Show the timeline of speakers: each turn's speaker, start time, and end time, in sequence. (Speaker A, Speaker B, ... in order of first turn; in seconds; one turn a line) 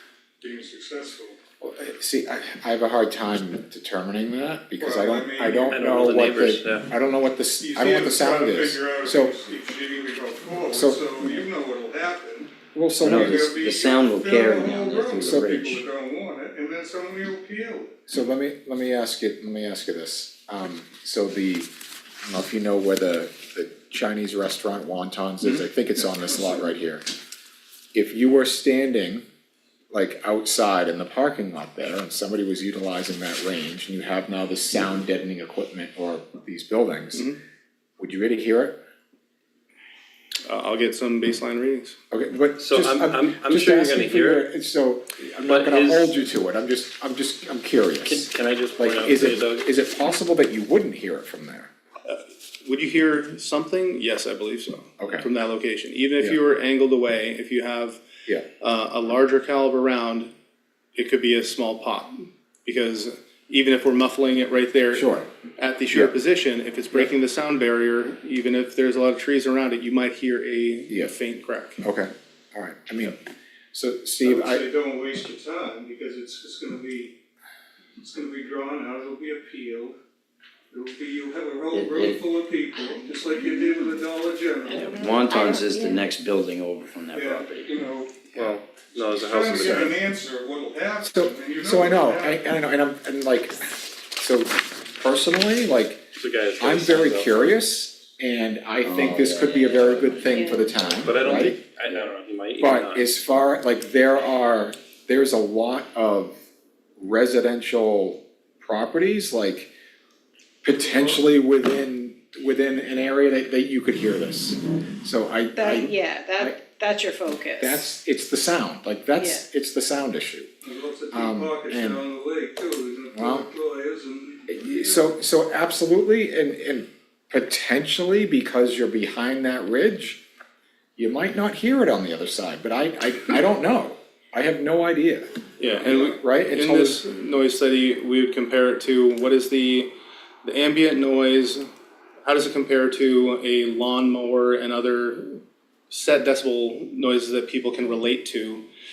Speaker A: 0.4-1.4
Speaker B: 1.6-9.3
Speaker A: 4.8-5.9
Speaker C: 5.7-6.9
Speaker A: 7.6-12.5
Speaker B: 10.7-11.2
Speaker B: 12.7-13.6
Speaker D: 13.0-15.8
Speaker A: 13.1-18.0
Speaker B: 15.2-15.8
Speaker B: 18.1-21.7
Speaker B: 22.2-27.1
Speaker B: 27.9-29.3
Speaker B: 29.9-37.3
Speaker B: 38.0-38.8
Speaker E: 40.5-42.0
Speaker B: 42.1-51.7
Speaker C: 42.6-44.5
Speaker C: 45.4-46.2
Speaker C: 48.0-49.7
Speaker E: 52.1-58.0
Speaker B: 55.0-55.3
Speaker E: 58.6-60.3
Speaker E: 61.0-71.8
Speaker B: 64.9-65.3
Speaker B: 71.8-73.2
Speaker B: 73.7-74.7
Speaker A: 74.2-77.2
Speaker A: 78.0-80.0
Speaker A: 80.7-85.4
Speaker D: 81.7-82.2
Speaker F: 83.2-84.0
Speaker D: 84.7-87.8
Speaker F: 84.8-86.1
Speaker A: 87.1-88.2
Speaker C: 88.3-90.0
Speaker A: 88.9-92.5
Speaker B: 89.5-89.9
Speaker B: 91.0-96.0
Speaker C: 96.2-97.5
Speaker B: 96.6-101.6
Speaker D: 98.8-101.2
Speaker F: 100.2-100.8
Speaker C: 101.0-103.0
Speaker B: 102.6-106.4
Speaker B: 107.0-109.7
Speaker B: 110.6-116.6
Speaker A: 110.8-111.2
Speaker F: 115.5-117.9
Speaker B: 117.6-120.5
Speaker F: 119.2-119.5
Speaker A: 120.6-125.1
Speaker B: 121.1-122.0
Speaker B: 123.1-123.5
Speaker B: 124.5-130.2
Speaker B: 131.0-137.0
Speaker E: 135.6-139.9
Speaker E: 140.4-141.7
Speaker E: 142.2-148.7